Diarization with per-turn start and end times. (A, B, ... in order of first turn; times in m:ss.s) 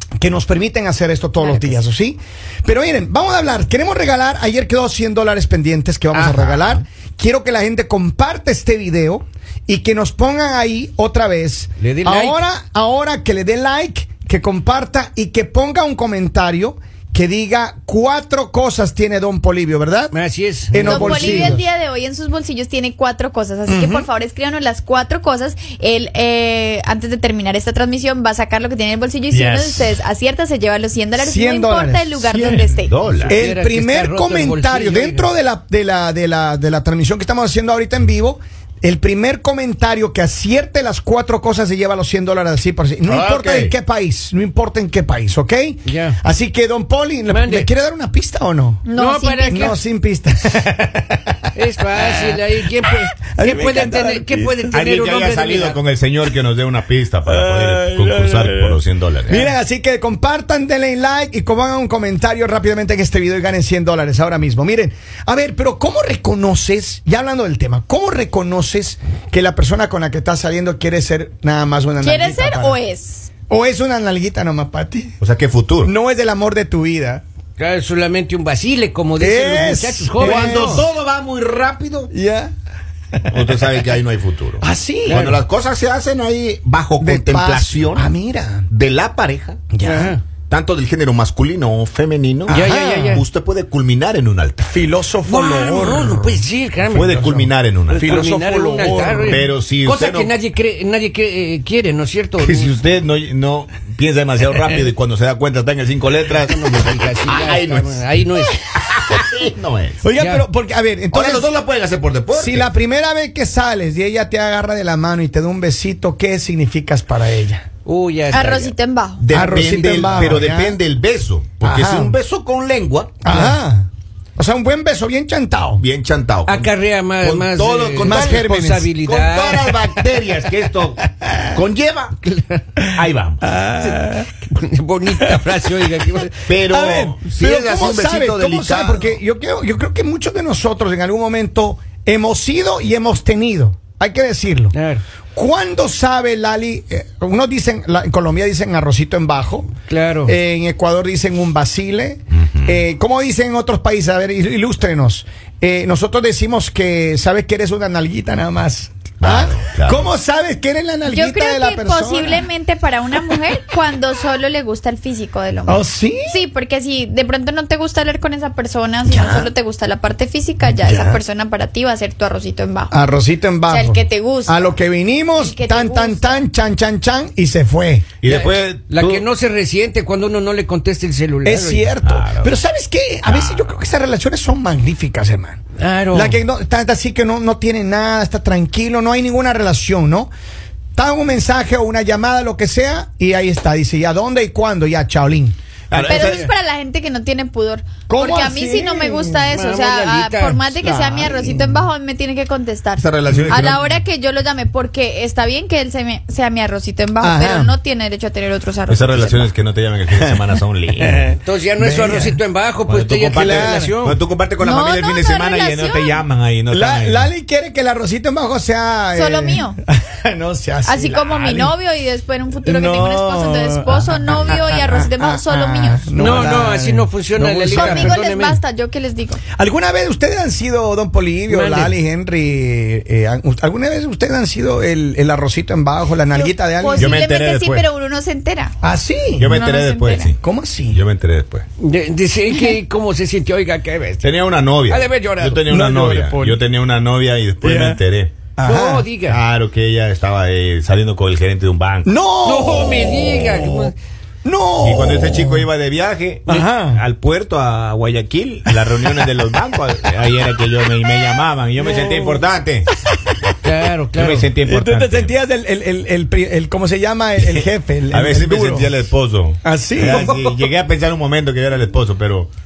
0:00.2-0:20.1 A
0:01.4-0:01.8 B
0:06.1-0:06.8 C
0:11.8-0:12.4 B
0:20.1-0:21.6 B
0:20.7-0:21.6 A
0:20.8-0:33.0 D
0:23.7-0:24.1 A
0:29.3-0:29.9 C
0:31.2-0:32.2 A
0:32.2-0:33.4 C
0:33.2-0:35.3 B
0:33.3-0:48.9 A
0:43.0-0:43.7 C
0:45.8-0:46.2 B
0:47.3-0:47.7 B
0:48.8-0:49.8 D
0:48.9-0:49.7 B
0:49.4-0:52.4 A
0:51.5-0:55.8 B
0:53.2-0:54.7 A
0:54.7-0:59.5 C
0:57.2-1:12.8 A
1:12.0-1:13.3 D
1:13.5-1:15.2 A
1:15.2-1:15.9 C
1:15.8-1:17.2 A
1:17.6-1:20.8 B
1:19.2-1:20.9 A
1:20.2-1:22.1 C
1:22.1-1:22.5 A
1:23.1-1:23.9 A
1:23.3-1:28.1 C
1:24.6-1:25.3 A
1:25.1-1:25.4 B
1:27.0-1:28.7 A
1:28.7-1:29.6 C
1:29.7-1:30.2 A
1:29.8-1:30.2 B
1:30.5-1:34.9 C
1:32.5-1:33.2 A
1:32.5-1:33.2 B
1:34.7-1:36.4 A
1:35.2-1:42.7 B
1:36.9-1:38.1 C
1:37.2-1:39.4 A
1:38.8-1:40.3 C
1:42.4-1:48.2 C
1:46.3-1:48.6 B
1:48.8-1:50.0 C
1:50.0-1:51.5 A
1:50.2-1:50.4 B
1:51.1-1:52.7 C
1:52.3-1:57.6 A
1:57.8-1:58.7 B
1:58.3-1:59.2 D
1:59.2-2:03.2 C
1:59.3-2:00.8 A
1:59.3-2:00.4 B
2:01.6-2:02.2 A
2:03.2-2:05.8 A
2:03.2-2:03.6 B
2:05.8-2:08.5 C
2:06.4-2:09.7 B
2:08.0-2:08.9 A
2:09.0-2:12.2 C
2:11.1-2:11.5 A
2:12.3-2:12.6 B
2:12.9-2:13.4 C
2:13.4-2:14.3 A
2:13.8-2:16.4 B
2:16.5-2:19.2 C
2:16.6-2:24.7 A
2:24.7-2:25.0 B
2:25.3-2:29.7 A
2:29.9-2:30.3 B
2:30.2-2:42.5 A
2:32.4-2:32.8 C
2:39.2-2:40.1 C
2:41.1-2:52.9 D
2:45.7-2:46.4 A
2:49.1-2:49.5 A
2:50.6-2:51.2 A
2:52.9-2:58.1 A
2:53.7-2:54.7 D
2:55.3-2:56.4 D
2:58.2-2:59.2 C
2:58.2-3:01.9 B
3:01.4-3:05.6 A
3:02.0-3:02.6 C
3:05.8-3:06.4 B
3:06.1-3:10.3 A
3:10.9-3:15.6 A
3:15.9-3:16.5 C
3:16.0-3:29.5 D
3:16.1-3:16.4 B
3:18.1-3:19.5 A
3:19.5-3:20.8 B
3:20.8-3:21.8 A
3:23.0-3:23.8 C
3:23.3-3:23.7 A
3:27.2-3:27.8 A
3:28.9-3:31.3 C
3:31.0-3:32.4 A
3:31.4-3:34.2 B
3:32.9-3:37.3 C
3:33.3-3:33.9 A
3:34.6-3:36.2 D
3:36.7-3:41.7 A
3:39.1-3:39.8 D
3:40.8-3:46.4 D
3:42.6-3:48.2 A
3:46.2-3:48.6 B
3:47.7-3:49.4 D
3:49.6-3:57.2 A
3:51.5-3:52.0 B
3:56.3-3:58.7 D
3:56.9-3:57.8 C
3:58.8-3:59.6 A
3:59.4-4:01.6 C
3:59.5-4:00.3 D
4:00.4-4:01.0 A
4:01.8-4:04.3 B
4:04.2-4:08.3 C
4:04.8-4:05.6 B
4:05.7-4:06.6 A
4:07.6-4:08.0 A
4:08.5-4:09.1 A
4:08.6-4:09.4 B
4:09.2-4:12.1 C
4:12.0-4:13.9 A
4:12.4-4:13.9 B
4:14.4-4:15.7 A
4:14.8-4:22.9 C
4:16.4-4:17.0 A
4:21.8-4:22.4 A
4:23.1-4:23.5 A
4:23.6-4:24.5 B
4:24.1-4:25.3 C
4:24.6-4:28.9 A
4:27.4-4:32.5 C
4:29.6-4:30.3 A
4:30.0-4:30.7 B